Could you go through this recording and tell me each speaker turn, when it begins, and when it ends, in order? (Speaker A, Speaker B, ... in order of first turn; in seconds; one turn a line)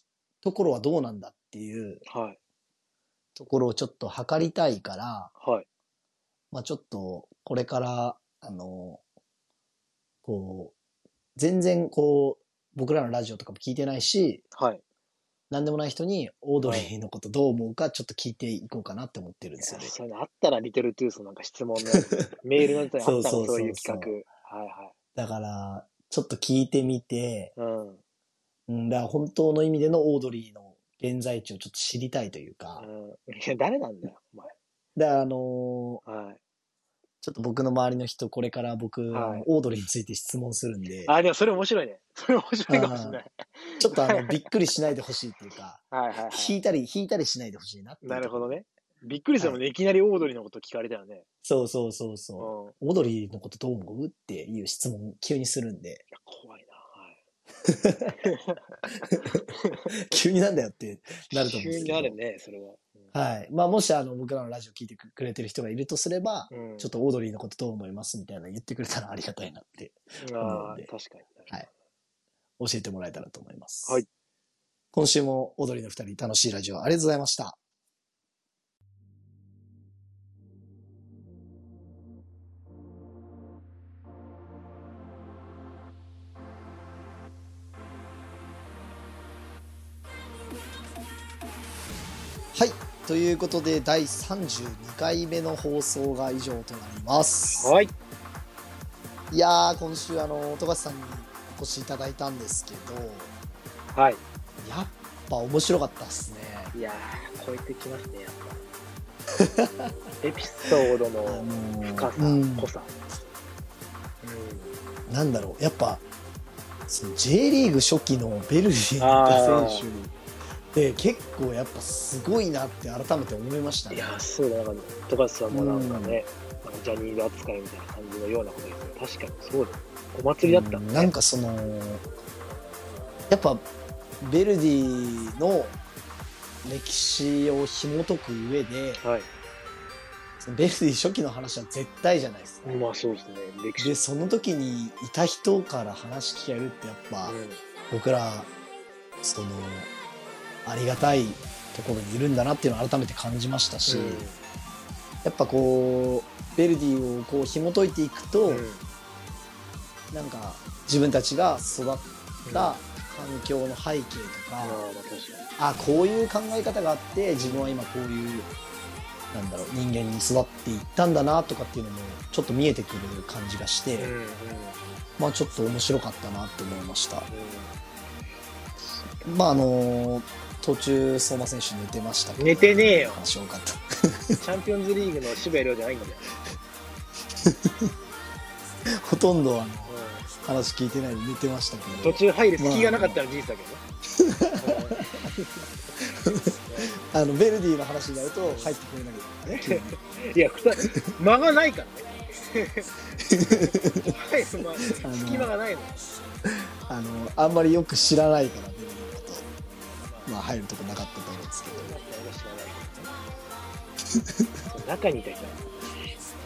Speaker A: 0.4-2.0
Speaker B: 2.1-2.4
Speaker A: 3.4-5.3
Speaker B: 5.4-5.7
Speaker A: 6.5-9.0
Speaker A: 10.2-10.8
Speaker A: 11.4-14.4
Speaker B: 14.6-14.8
Speaker A: 15.5-19.9
Speaker B: 16.6-16.9
Speaker B: 19.6-24.9
Speaker A: 23.0-24.1
Speaker A: 25.1-27.5
Speaker B: 27.6-28.0
Speaker A: 28.7-32.9
Speaker B: 32.8-34.5
Speaker A: 35.0-36.0
Speaker B: 36.0-36.4
Speaker A: 37.2-41.1
Speaker B: 39.1-39.5
Speaker B: 41.1-44.4
Speaker A: 42.7-43.2
Speaker A: 43.8-48.6
Speaker B: 45.9-46.6
Speaker B: 48.0-51.2
Speaker A: 51.5-56.0
Speaker B: 52.4-52.8
Speaker B: 56.1-57.2
Speaker A: 57.6-58.2
Speaker B: 58.2-59.0
Speaker A: 59.0-62.2
Speaker B: 61.4-63.1
Speaker A: 63.1-70.9
Speaker B: 66.5-66.9
Speaker B: 70.2-71.5
Speaker A: 72.6-74.0
Speaker A: 74.9-77.6
Speaker A: 92.5-97.7
Speaker B: 97.5-97.9
Speaker A: 99.3-103.3
Speaker B: 103.9-104.2
Speaker A: 104.6-106.7
Speaker B: 106.7-108.6
Speaker A: 109.4-109.9
Speaker B: 110.2-113.0
Speaker A: 111.2-112.7
Speaker B: 114.2-114.8
Speaker A: 115.1-116.0
Speaker A: 116.9-120.1
Speaker B: 119.0-119.8
Speaker A: 120.7-124.1
Speaker B: 123.9-131.1
Speaker A: 125.5-126.2
Speaker A: 130.4-132.0
Speaker A: 133.3-133.7
Speaker A: 134.2-135.8
Speaker A: 136.6-139.0
Speaker B: 139.0-139.3
Speaker A: 140.4-142.8
Speaker B: 142.6-143.9
Speaker A: 143.8-147.4
Speaker B: 147.3-147.6
Speaker A: 147.9-148.5
Speaker A: 149.2-149.9
Speaker A: 150.7-154.3
Speaker B: 153.9-154.4
Speaker A: 155.2-158.7
Speaker B: 158.5-158.9
Speaker A: 160.1-164.8
Speaker B: 162.4-162.8
Speaker B: 164.6-165.5
Speaker A: 165.6-168.5
Speaker B: 167.3-167.8
Speaker A: 169.3-174.1
Speaker B: 174.0-174.8
Speaker A: 175.2-177.3
Speaker B: 177.3-177.8
Speaker A: 179.2-184.4
Speaker B: 182.4-183.2
Speaker B: 184.4-186.4
Speaker A: 187.4-187.9
Speaker A: 188.9-193.2
Speaker B: 189.9-190.3
Speaker B: 192.0-193.8
Speaker A: 194.2-195.3
Speaker B: 194.6-195.7
Speaker A: 196.0-200.0
Speaker B: 196.2-197.1
Speaker B: 198.4-198.7
Speaker B: 199.5-202.9
Speaker A: 200.8-201.1
Speaker A: 203.2-204.2
Speaker B: 204.0-206.0
Speaker A: 205.0-205.5
Speaker A: 206.9-209.5
Speaker B: 210.0-210.3
Speaker A: 210.2-211.9
Speaker B: 211.7-213.1
Speaker A: 214.2-214.5
Speaker B: 214.6-215.7